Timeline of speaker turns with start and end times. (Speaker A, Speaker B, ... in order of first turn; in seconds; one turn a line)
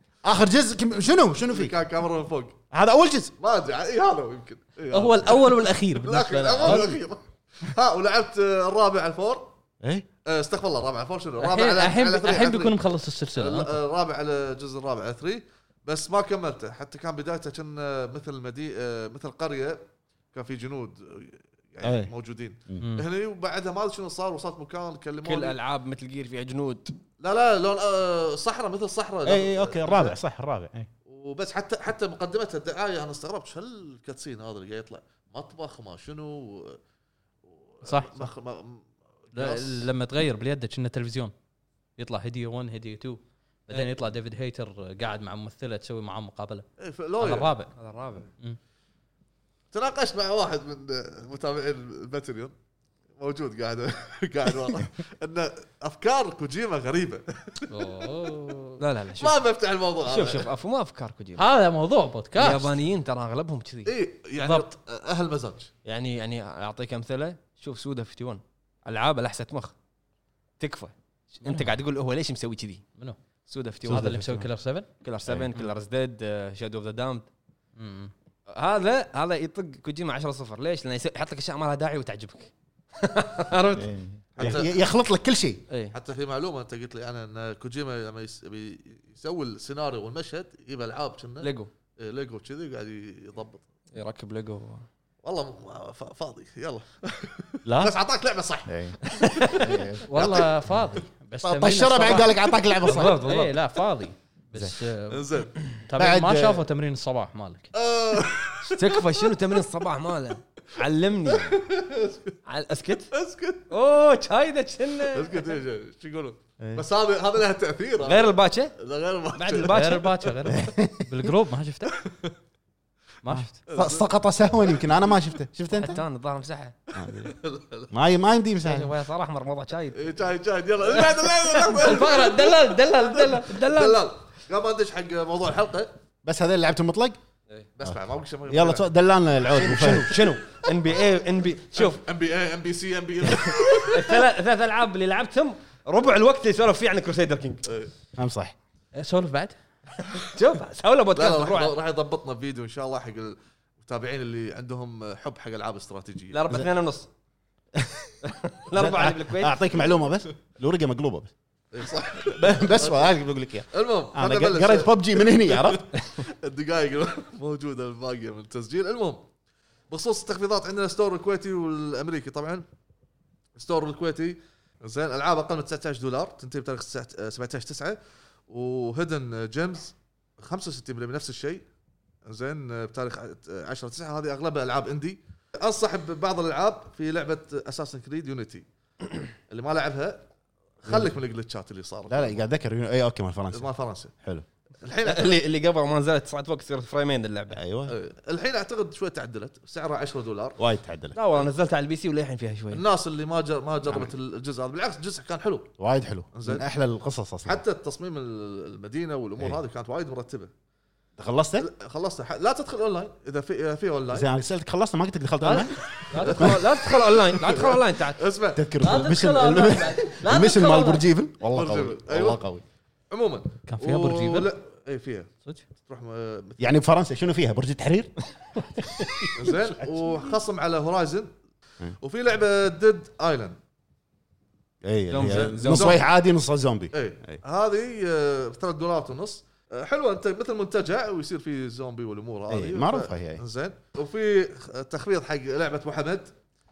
Speaker A: 0.2-1.7
Speaker B: 1.5-2.5
Speaker A: 2.7-3.3
Speaker B: 3.4-9.5
Speaker C: 4.9-7.0
Speaker A: 9.8-10.1
Speaker B: 10.2-12.8
Speaker C: 11.4-13.7
Speaker B: 13.4-25.6
Speaker A: 21.8-22.1
Speaker C: 22.8-23.1
Speaker D: 25.2-26.9
Speaker B: 27.2-30.2
Speaker A: 29.2-30.9
Speaker B: 31.1-36.8
Speaker B: 37.5-39.9
Speaker C: 37.8-38.3
Speaker C: 39.3-41.3
Speaker C: 42.0-46.7
Speaker B: 46.8-47.5
Speaker C: 47.2-47.7
Speaker D: 47.8-48.3
Speaker B: 49.7-52.5
Speaker B: 53.2-57.7
Speaker C: 57.7-58.8
Speaker D: 58.8-59.4
Speaker B: 59.2-60.5
Speaker D: 60.0-61.4
Speaker C: 61.4-62.7
Speaker D: 62.4-63.9
Speaker B: 63.9-65.7
Speaker C: 64.4-64.7
Speaker D: 65.8-69.7
Speaker D: 70.6-72.8
Speaker D: 73.5-74.2
Speaker A: 73.8-74.5
Speaker C: 73.9-74.9
Speaker D: 75.0-77.3
Speaker A: 75.2-75.5
Speaker C: 77.8-78.1
Speaker D: 78.5-84.6
Speaker A: 83.8-85.6
Speaker B: 84.3-84.7
Speaker D: 85.7-86.0
Speaker B: 85.9-93.6
Speaker D: 91.4-91.7
Speaker D: 93.9-94.8
Speaker B: 95.2-100.5
Speaker A: 97.6-97.9
Speaker A: 98.7-99.0
Speaker D: 99.1-99.7
Speaker A: 99.5-100.5
Speaker C: 100.0-105.2
Speaker A: 101.4-103.2
Speaker D: 102.8-103.5
Speaker A: 104.5-104.8
Speaker B: 105.1-105.6
Speaker C: 105.8-107.7
Speaker A: 106.0-106.6
Speaker B: 107.7-109.2
Speaker D: 108.6-111.6
Speaker B: 111.3-112.3
Speaker D: 112.5-113.1
Speaker B: 113.1-113.7
Speaker D: 113.7-115.6
Speaker B: 115.1-120.0
Speaker A: 116.6-116.8
Speaker D: 118.0-118.8
Speaker D: 119.3-120.1
Speaker C: 119.7-122.0
Speaker A: 120.5-121.0
Speaker B: 121.9-122.3
Speaker C: 123.2-123.5
Speaker A: 123.3-126.0
Speaker B: 123.7-124.1
Speaker D: 125.7-126.7
Speaker A: 126.9-127.3
Speaker B: 126.9-127.9
Speaker A: 127.9-128.9
Speaker D: 128.6-130.3
Speaker B: 129.9-136.0
Speaker D: 130.8-132.3
Speaker C: 131.8-133.5
Speaker D: 133.4-134.0
Speaker A: 136.2-137.2
Speaker B: 137.8-138.8
Speaker A: 137.8-140.2
Speaker D: 139.5-142.0
Speaker B: 141.7-144.2
Speaker D: 143.2-147.6
Speaker B: 147.7-147.9
Speaker A: 148.2-148.5
Speaker C: 148.9-149.6
Speaker D: 150.2-151.7
Speaker B: 151.1-156.4
Speaker D: 156.3-157.1
Speaker A: 157.8-158.1
Speaker D: 158.2-159.6
Speaker A: 158.7-161.3
Speaker B: 161.7-163.1
Speaker A: 162.2-165.8
Speaker B: 163.7-169.3
Speaker B: 169.9-172.6
Speaker B: 173.6-181.6
Speaker B: 182.2-188.7
Speaker B: 189.5-190.3
Speaker B: 190.8-192.3
Speaker A: 190.9-191.1
Speaker A: 192.1-193.7
Speaker B: 193.5-194.1
Speaker B: 194.8-195.4
Speaker D: 195.0-197.6
Speaker A: 197.5-198.0
Speaker B: 197.9-200.6
Speaker A: 200.6-201.2
Speaker D: 201.1-202.8
Speaker B: 202.7-205.7
Speaker A: 205.8-207.6
Speaker B: 206.3-206.6
Speaker B: 207.4-210.5
Speaker A: 211.2-211.7
Speaker B: 211.6-214.2
Speaker A: 214.1-216.6
Speaker D: 215.4-218.2
Speaker B: 216.2-218.7
Speaker A: 218.5-222.6
Speaker C: 218.8-221.0
Speaker B: 221.5-222.4
Speaker B: 223.1-225.3
Speaker C: 223.7-224.5
Speaker B: 225.8-226.7
Speaker A: 226.6-228.2
Speaker B: 229.3-231.3
Speaker B: 232.0-233.6
Speaker A: 234.8-237.4
Speaker D: 235.1-236.0
Speaker B: 235.2-236.0
Speaker B: 236.9-246.3
Speaker A: 242.5-243.4